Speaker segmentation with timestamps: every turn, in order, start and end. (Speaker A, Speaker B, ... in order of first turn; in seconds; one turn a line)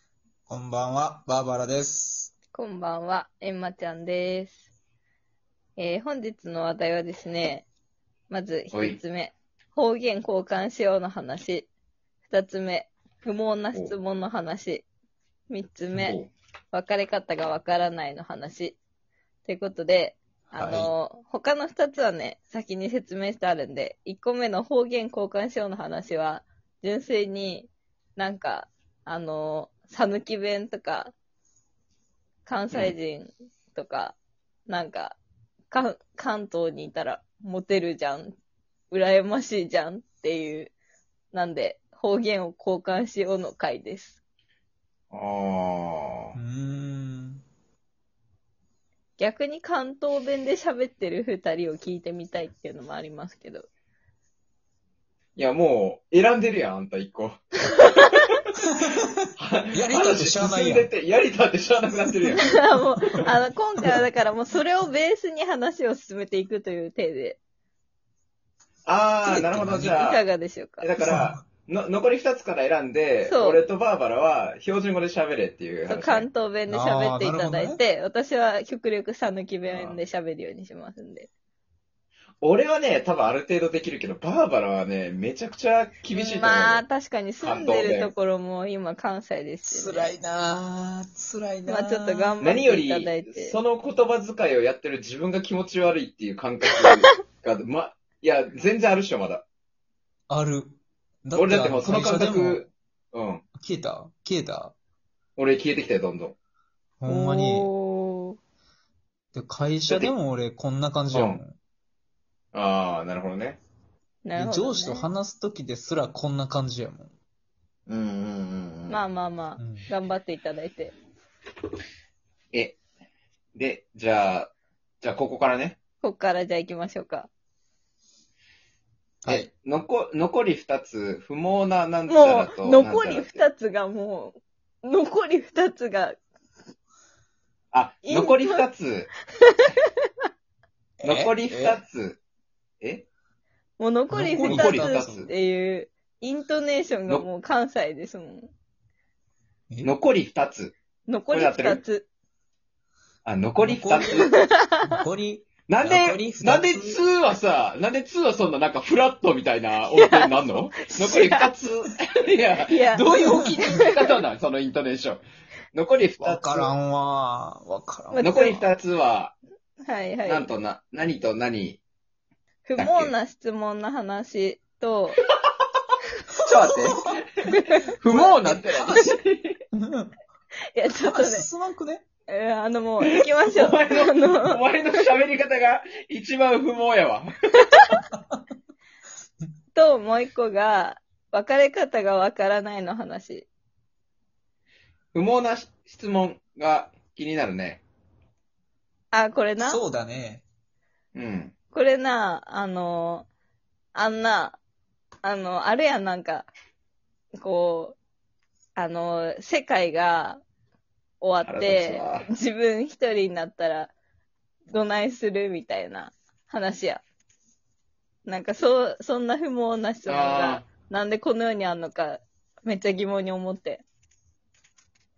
Speaker A: 0.5-2.3
Speaker B: 2.5-4.6
Speaker B: 5.8-7.7
Speaker B: 8.3-11.7
Speaker C: 8.7-9.0
Speaker B: 12.3-14.8
Speaker B: 15.5-16.2
Speaker C: 16.0-16.3
Speaker B: 16.7-18.8
Speaker B: 19.4-31.1
Speaker C: 20.6-20.9
Speaker B: 32.5-34.2
Speaker B: 34.7-35.2
Speaker B: 35.7-38.3
Speaker B: 38.9-40.7
Speaker B: 41.3-44.2
Speaker C: 45.1-46.3
Speaker A: 46.3-47.4
Speaker B: 49.2-53.7
Speaker C: 55.4-57.8
Speaker A: 58.8-59.1
Speaker C: 59.4-62.5
Speaker A: 59.7-60.9
Speaker B: 62.4-67.4
Speaker C: 68.9-70.2
Speaker B: 69.2-70.9
Speaker A: 69.5-69.9
Speaker C: 70.8-76.3
Speaker A: 71.0-71.4
Speaker B: 73.3-73.6
Speaker B: 75.8-81.3
Speaker A: 76.7-77.8
Speaker C: 79.7-80.0
Speaker C: 82.4-86.8
Speaker B: 86.1-90.1
Speaker C: 87.4-88.1
Speaker A: 89.7-92.4
Speaker B: 91.7-93.6
Speaker C: 92.4-99.4
Speaker A: 100.3-102.7
Speaker C: 101.3-103.4
Speaker A: 103.6-104.7
Speaker C: 105.4-106.3
Speaker A: 107.0-107.7
Speaker B: 107.1-108.4
Speaker A: 109.3-111.6
Speaker C: 111.1-111.4
Speaker C: 112.5-113.6
Speaker B: 114.2-115.1
Speaker A: 114.3-117.1
Speaker C: 117.9-119.0
Speaker B: 118.9-120.9
Speaker A: 119.6-119.9
Speaker C: 122.5-122.8
Speaker C: 123.5-125.8
Speaker B: 126.0-127.3
Speaker C: 129.2-133.5
Speaker B: 132.1-136.2
Speaker C: 137.7-139.1
Speaker B: 138.1-138.7
Speaker B: 139.4-139.9
Speaker A: 141.0-141.8
Speaker C: 141.0-142.2
Speaker C: 142.8-143.1
Speaker B: 143.8-148.5
Speaker A: 144.1-145.3
Speaker C: 144.4-145.3
Speaker C: 149.8-150.7
Speaker B: 151.1-152.1
Speaker C: 151.3-151.8
Speaker C: 153.2-154.3
Speaker A: 153.6-157.0
Speaker B: 154.1-154.8
Speaker C: 155.7-166.7
Speaker B: 159.9-161.5
Speaker B: 162.7-164.1
Speaker A: 166.2-168.4
Speaker B: 168.1-168.6
Speaker C: 168.2-169.3
Speaker B: 169.8-170.5
Speaker C: 170.2-171.8
Speaker B: 172.7-175.2
Speaker C: 172.8-173.1
Speaker A: 176.4-177.1
Speaker C: 176.4-179.6
Speaker B: 177.5-179.1
Speaker A: 179.7-180.2
Speaker B: 180.7-181.5
Speaker A: 181.0-182.0
Speaker B: 182.3-184.6
Speaker C: 183.0-187.3
Speaker B: 187.7-188.0
Speaker A: 188.1-188.4
Speaker B: 189.7-193.5
Speaker C: 195.1-197.8
Speaker B: 199.1-199.8
Speaker A: 199.6-200.4
Speaker C: 201.1-201.5
Speaker B: 201.7-203.3
Speaker B: 203.9-204.6
Speaker B: 205.2-206.5
Speaker B: 207.4-207.9
Speaker B: 208.8-210.4
Speaker B: 211.2-213.9
Speaker C: 211.4-212.3
Speaker B: 214.7-217.0
Speaker B: 218.2-223.8
Speaker C: 220.1-220.7